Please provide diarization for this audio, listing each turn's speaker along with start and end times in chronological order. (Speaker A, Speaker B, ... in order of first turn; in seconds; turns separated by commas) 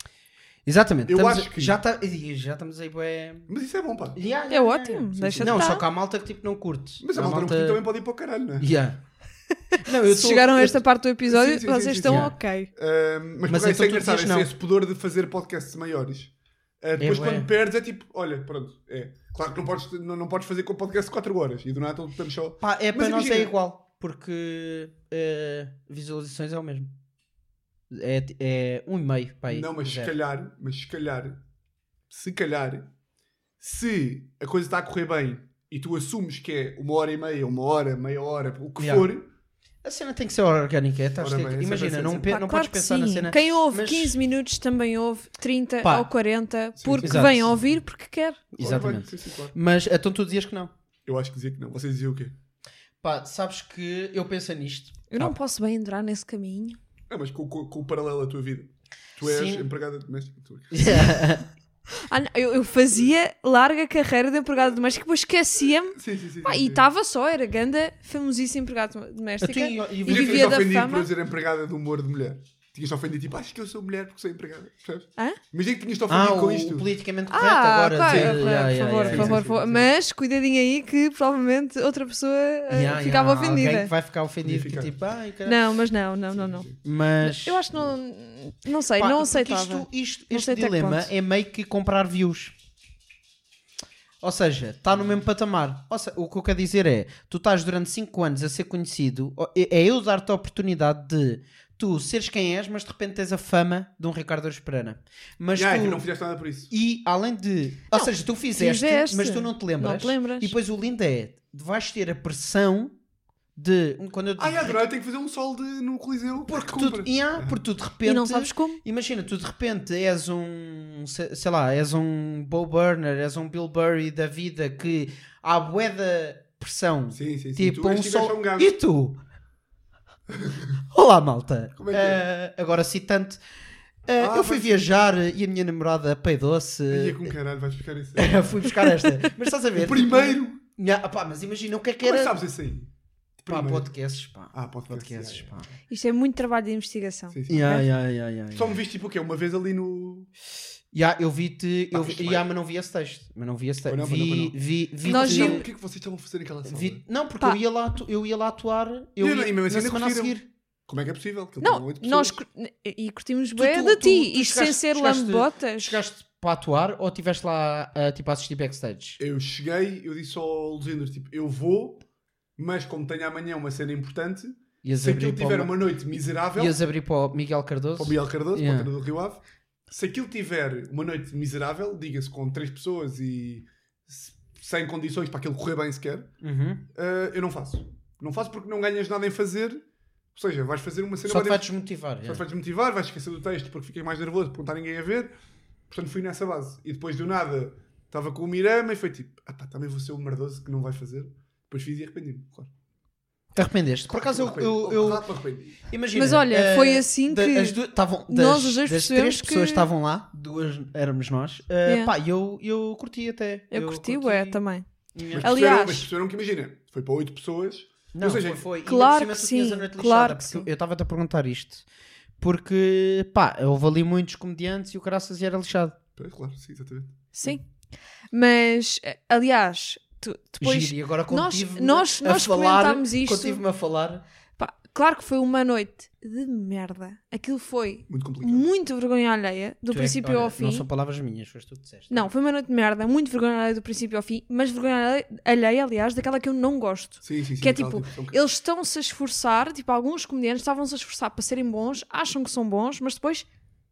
Speaker A: 0.7-3.5, Speaker B: 1.1-1.8, Speaker B: 3.5-4.2, Speaker A: 4.1-7.8, Speaker C: 4.5-5.8, Speaker B: 5.1-5.8, Speaker B: 7.0-8.7, Speaker A: 8.6-9.0, Speaker A: 9.8-10.8, Speaker C: 10.0-12.7, Speaker B: 11.2-23.5, Speaker A: 12.0-12.3, Speaker A: 13.5-14.5, Speaker A: 17.0-17.5, Speaker A: 22.6-26.9, Speaker A: 27.9-30.1, Speaker B: 29.5-31.4, Speaker B: 32.1-32.9, Speaker B: 33.6-39.3, Speaker A: 38.8-39.1, Speaker A: 39.8-44.1, Speaker B: 41.2-42.4, Speaker C: 42.3-48.4, Speaker A: 45.8-46.1, Speaker B: 46.8-47.6, Speaker A: 47.0-47.5, Speaker A: 48.5-50.7, Speaker B: 48.6-49.5, Speaker B: 51.0-52.3, Speaker A: 53.0-55.3, Speaker C: 55.1-56.8, Speaker B: 57.1-61.2, Speaker A: 59.2-59.6, Speaker A: 60.7-61.5, Speaker C: 62.0-71.1, Speaker B: 65.9-66.8, Speaker A: 69.4-70.6, Speaker B: 70.0-76.9, Speaker A: 76.1-79.4, Speaker C: 77.3-83.9, Speaker B: 78.0-79.9, Speaker A: 82.7-85.6, Speaker B: 84.4-84.9, Speaker C: 85.5-86.7, Speaker B: 86.3-86.7, Speaker A: 86.8-87.6, Speaker C: 87.2-91.1, Speaker A: 89.0-92.5, Speaker A: 94.2-106.0, Speaker B: 105.5-106.7, Speaker A: 106.7-112.9, Speaker C: 107.9-110.5, Speaker A: 113.5-114.8, Speaker B: 114.4-117.6, Speaker A: 116.5-129.2, Speaker C: 118.0-118.8, Speaker B: 127.1-128.7, Speaker B: 130.3-130.7, Speaker A: 130.9-133.4, Speaker B: 131.8-132.2, Speaker A: 134.1-137.3, Speaker B: 134.2-134.9, Speaker B: 136.9-138.7, Speaker A: 138.2-142.3, Speaker B: 139.8-140.6, Speaker B: 142.0-143.9, Speaker A: 143.5-145.7, Speaker B: 144.5-145.5, Speaker C: 145.9-147.8, Speaker B: 147.3-147.8, Speaker A: 147.5-148.8, Speaker B: 148.5-150.3, Speaker A: 150.9-155.6, Speaker B: 151.9-152.5, Speaker B: 153.9-157.0, Speaker C: 155.0-155.6, Speaker A: 156.7-160.4, Speaker B: 159.2-162.4, Speaker C: 161.6-166.0, Speaker A: 163.6-169.2, Speaker B: 169.2-172.0, Speaker B: 172.6-176.8, Speaker A: 174.8-175.9, Speaker A: 176.5-178.9, Speaker B: 178.0-186.3, Speaker A: 186.4-186.8, Speaker B: 186.9-189.8, Speaker B: 190.3-191.7, Speaker A: 191.2-192.4, Speaker B: 192.2-195.3, Speaker B: 195.9-202.7, Speaker A: 203.5-205.2, Speaker B: 204.3-205.8, Speaker A: 205.8-214.6, Speaker C: 206.1-209.9, Speaker C: 211.8-212.1, Speaker C: 213.7-214.8, Speaker A: 215.1-215.6, Speaker B: 215.3-218.6, Speaker C: 215.4-216.1, Speaker A: 218.1-221.8, Speaker C: 218.8-220.7, Speaker A: 222.4-226.0, Speaker B: 226.2-227.6, Speaker C: 227.3-227.6, Speaker C: 228.3-233.6, Speaker A: 230.6-234.2, Speaker C: 234.6-240.8, Speaker B: 238.1-238.7, Speaker A: 239.9-242.3, Speaker C: 242.1-253.4, Speaker B: 247.2-248.4